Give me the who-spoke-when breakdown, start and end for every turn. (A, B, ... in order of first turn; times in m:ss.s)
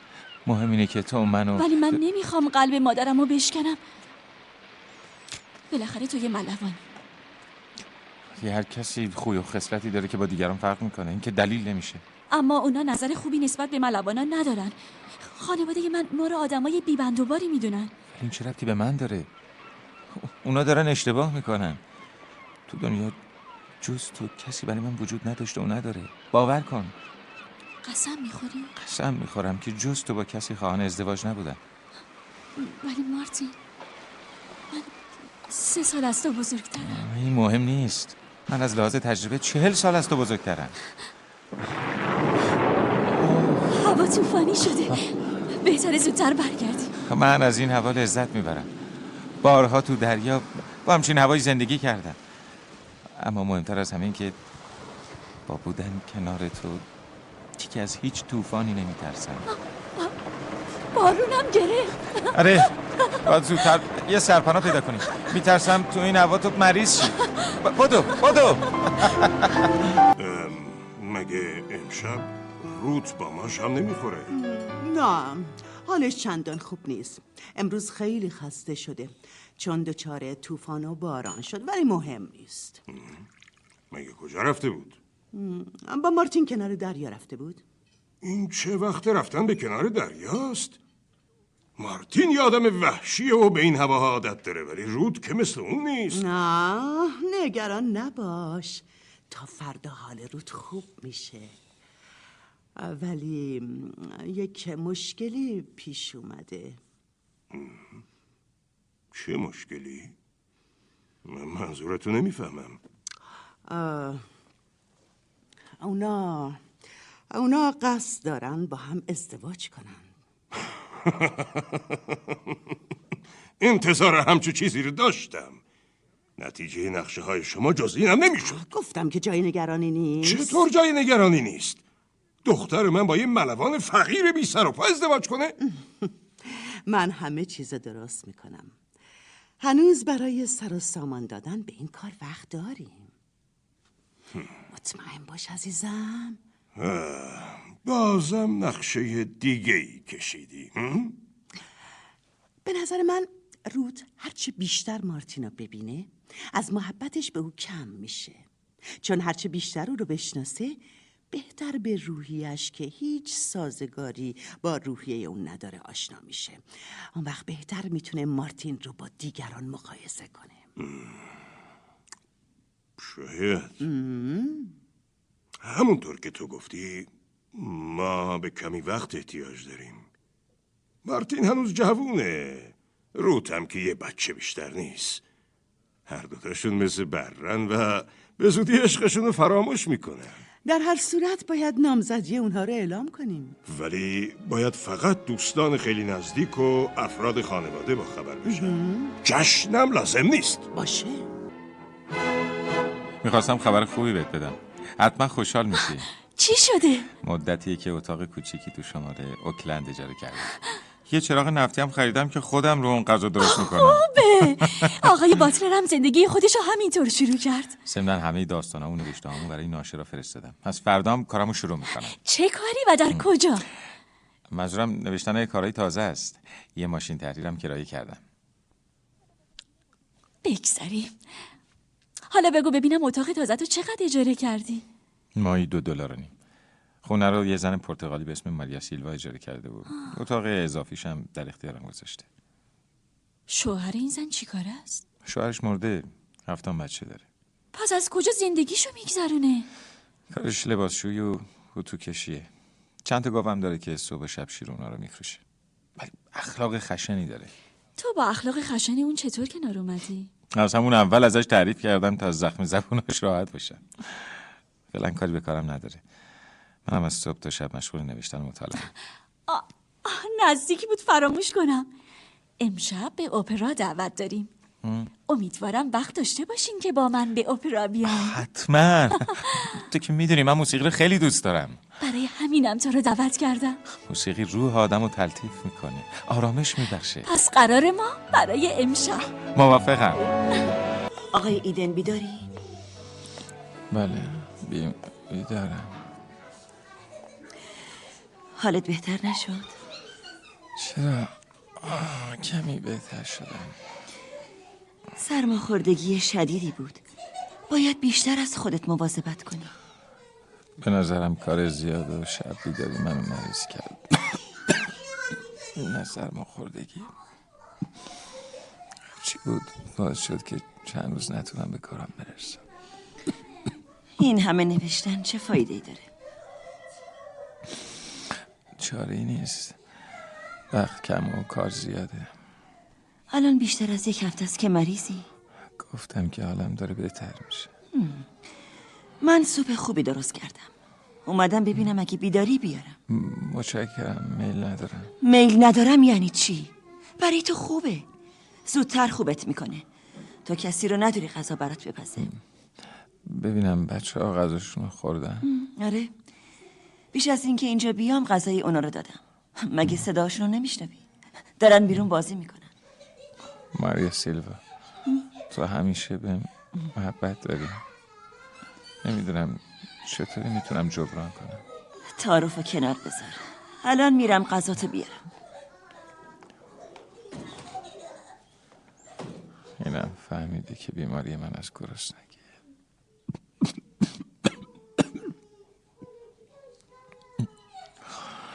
0:00.4-0:02.0 A
0:01.6-0:03.8 B
0:05.7-0:06.8 B
0:08.4-0:12.0 A
0:12.3-0:17.9 B
0:18.1-0:19.3 A
0:20.1-0:21.8 A
0:22.7-0:23.2 A
0:23.8-0:26.9 A
0:27.8-0:28.7 B
0:28.8-0:31.6 A
0:32.6-0:33.6 B
0:35.5-0:37.0 B
0:36.8-0:40.8 A
0:43.2-0:43.7 A
0:43.7-0:46.9 B
0:47.0-0:48.7 A
0:49.4-0:52.2 A
0:53.1-0:54.4 A
0:55.4-0:56.8 A
0:57.6-0:59.5 A
1:00.9-1:02.4 B
1:02.3-1:09.7 A
1:10.2-1:14.3 C
1:14.3-1:22.8 D
1:23.9-1:25.0 C
1:25.3-1:27.6 D
1:28.2-1:30.8 C
1:31.8-1:36.3 C
1:36.1-1:41.5 D
1:42.8-1:46.8 D
1:49.1-1:50.1 C
1:51.2-1:52.8 C
1:53.6-1:54.2 D
1:55.8-1:56.6 D
1:57.3-2:00.1 D
2:01.2-2:01.8 C
2:03.6-2:05.6 C
2:06.4-2:08.6 C
2:08.4-2:10.6 D
2:10.2-2:11.8 C
2:12.4-2:15.6 C
2:15.6-2:18.7 D
2:19.6-2:23.1 D
2:24.7-2:26.4 D
2:26.8-2:31.2 C
2:32.6-2:38.4 D
2:39.0-2:40.8 D
2:41.3-2:46.6 D
2:47.1-2:50.7 D
2:50.8-2:51.2 C
2:53.0-2:53.8 C
2:53.8-2:54.7 D
2:55.6-3:00.1 C
3:01.0-3:05.2 C
3:06.1-3:10.4 C
3:10.6-3:13.6 D
3:13.6-3:20.7 C
3:18.5-3:19.1 D
3:20.7-3:21.3 D
3:23.2-3:26.1 A
3:26.4-3:27.1 B
3:27.2-3:34.9 A
3:33.4-3:37.7 B
3:37.9-3:42.2 A
3:42.2-3:43.6 B
3:44.5-3:48.2 A
3:50.4-3:51.1 B
3:52.3-3:54.8 B
3:55.4-3:56.3 A
3:57.0-4:02.3 A
4:03.5-4:05.0 B
4:05.2-4:07.3 A
4:07.7-4:09.7 B
4:10.3-4:12.5 A
4:13.0-4:15.4 A
4:16.0-4:17.5 A
4:18.0-4:20.3 B
4:20.5-4:26.0 A
4:26.8-4:28.9 A
4:29.5-4:31.9 B
4:32.6-4:34.5 B
4:34.8-4:35.1 A
4:35.3-4:38.4 B
4:38.0-4:41.8 A
4:39.2-4:39.7 B
4:42.0-4:43.8 B
4:43.9-4:47.3 A
4:47.2-4:49.3 B
4:49.5-4:50.3 A
4:51.3-4:52.4 E
4:53.9-4:55.9 A
4:58.6-4:59.7 E
5:00.8-5:03.8 A
5:05.2-5:07.0 E
5:07.7-5:09.7 E
5:10.8-5:14.4 A
5:15.7-5:17.1 A
5:19.2-5:22.6 A
5:24.2-5:26.0 E
5:28.8-5:29.8 A
5:30.7-5:32.3 A
5:33.3-5:35.2 E
5:35.8-5:37.7 A
5:37.9-5:38.2 E
5:39.2-5:40.7 E
5:41.3-5:42.9 E
5:43.1-5:45.1 A
5:45.2-5:48.0 E
5:48.7-5:49.8 E
5:50.4-5:52.3 E
5:53.2-5:55.5 A
5:55.4-5:56.1 E
5:57.1-6:01.0 E
6:01.6-6:02.7 E
6:03.7-6:04.6 A
6:05.5-6:07.8 A
6:09.0-6:11.6 A
6:12.1-6:15.2 E
6:19.8-6:22.4 A
6:28.1-6:28.4 A